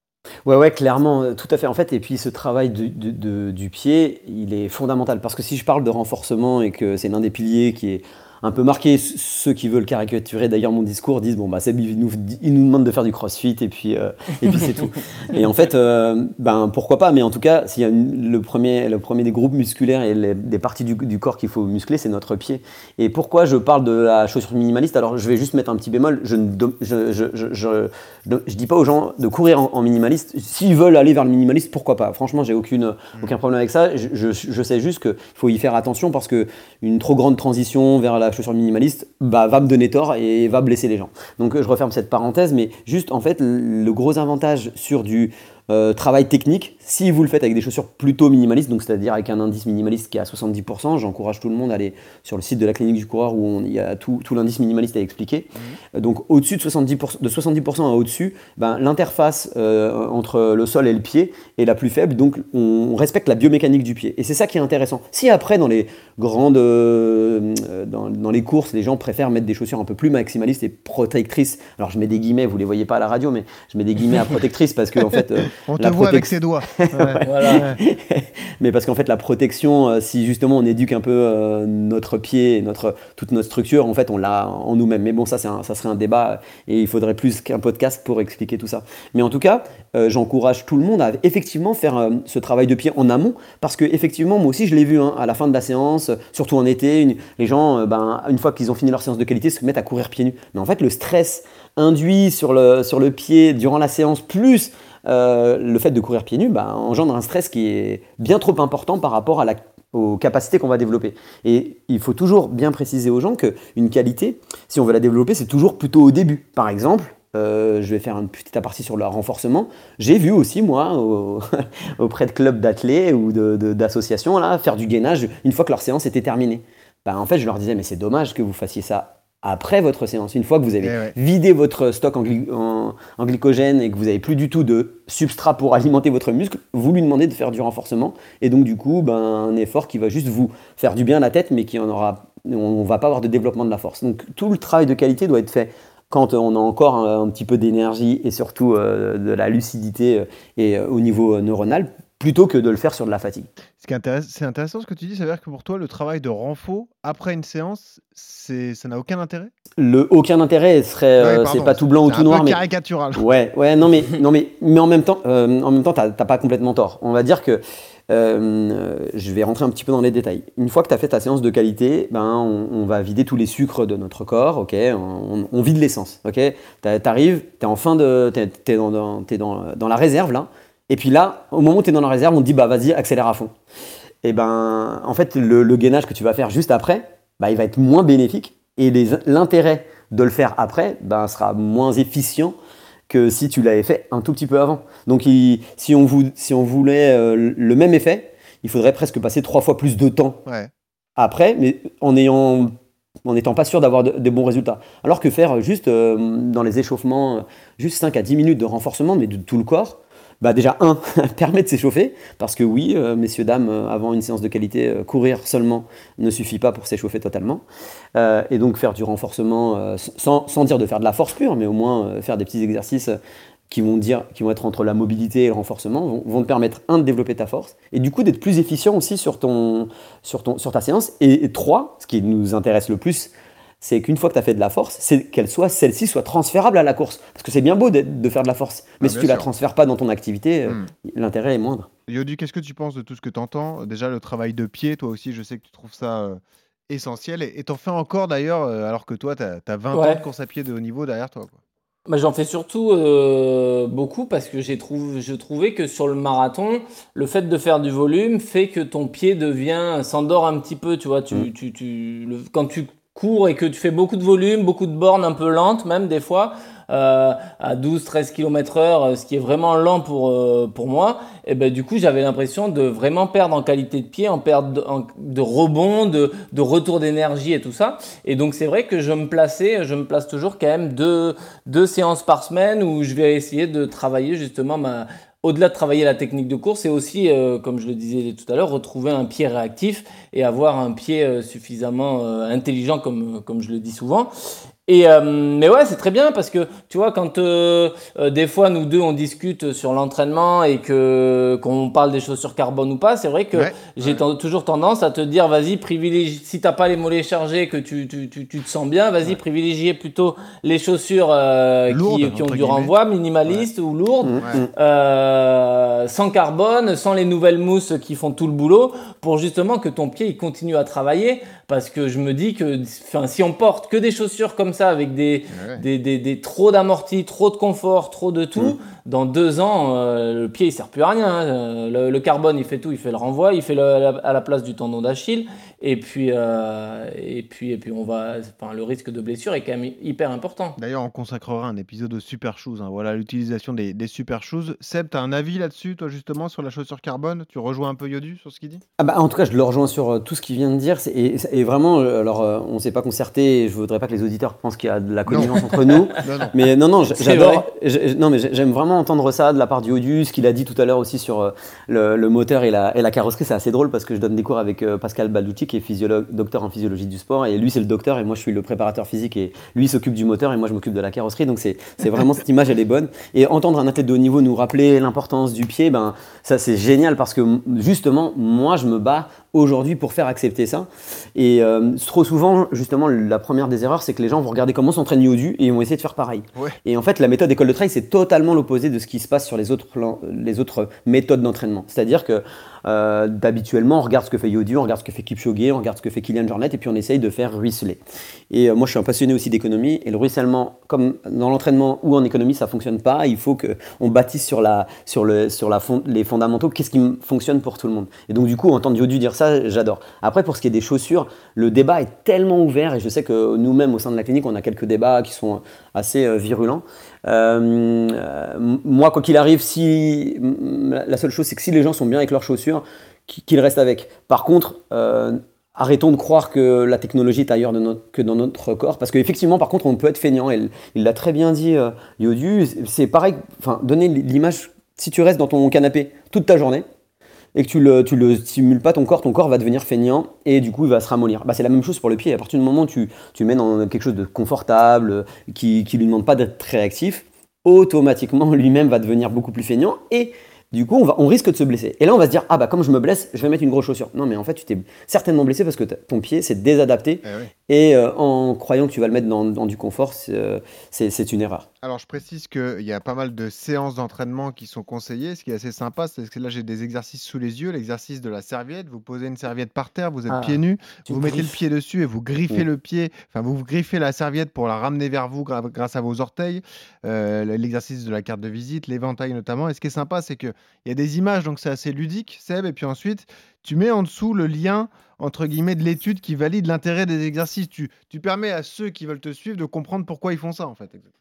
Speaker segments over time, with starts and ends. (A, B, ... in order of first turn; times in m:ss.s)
0:00.4-2:33.5 A
1:15.5-1:17.8 B
1:17.2-1:17.7 C
2:10.8-2:11.1 B
2:33.8-2:39.5 B
2:39.8-2:42.6 A
2:41.2-2:43.2 B
2:43.2-3:03.5 A
3:04.2-3:12.6 A
3:13.1-3:20.4 A
3:20.4-3:20.7 B
3:21.2-3:22.7 A
3:23.2-3:37.6 A
3:38.1-3:43.1 A
3:43.7-4:01.9 A
3:59.0-3:59.5 B
4:02.1-4:11.6 B
4:09.9-4:10.2 C
4:12.1-4:54.3 C
4:54.9-5:40.8 C
5:03.5-5:04.2 B
5:11.9-5:12.9 B
5:14.2-5:14.7 A
5:25.5-5:25.8 B
5:40.8-5:48.8 B
5:49.0-7:16.9 A
5:55.3-5:56.5 B
5:57.1-5:57.6 C
7:17.5-7:41.6 A
7:37.2-7:37.5 B
7:41.8-8:11.1 B
7:50.3-7:51.5 C